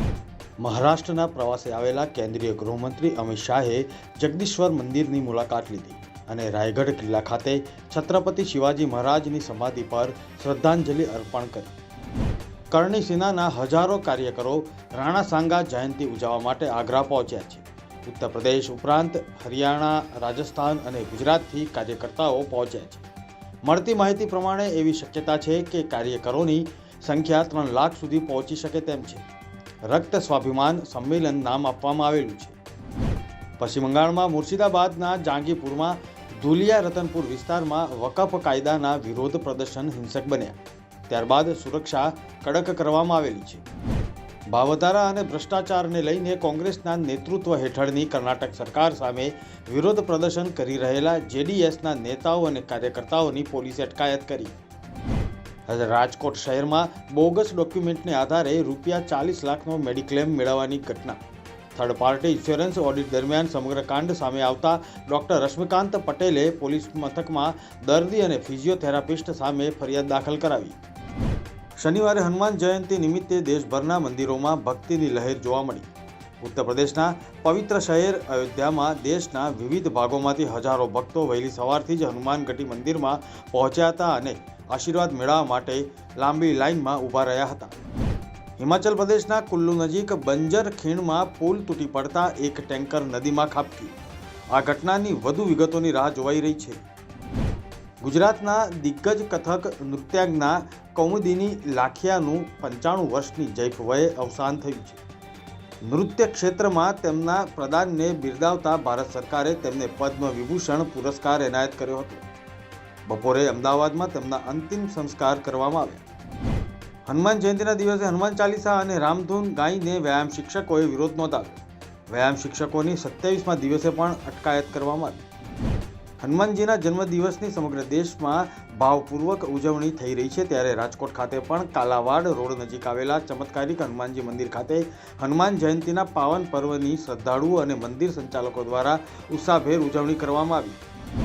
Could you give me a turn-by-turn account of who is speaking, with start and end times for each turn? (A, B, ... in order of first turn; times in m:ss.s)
0:00.6-0:11.7 A
0:12.7-0:23.0 A
0:23.6-0:29.2 A
0:29.9-0:32.6 A
0:33.6-0:40.6 A
0:41.1-0:43.6 A
0:44.5-0:54.6 A
0:55.7-1:01.2 A
1:01.7-1:10.8 A
1:11.8-1:15.9 A
1:16.4-1:27.7 A
1:28.6-1:33.9 A
1:34.5-1:36.8 A
1:38.0-1:45.0 A
1:45.8-1:52.2 A
1:53.1-1:56.0 A
1:57.0-2:01.6 A
2:02.1-2:05.2 A
2:06.2-2:20.8 A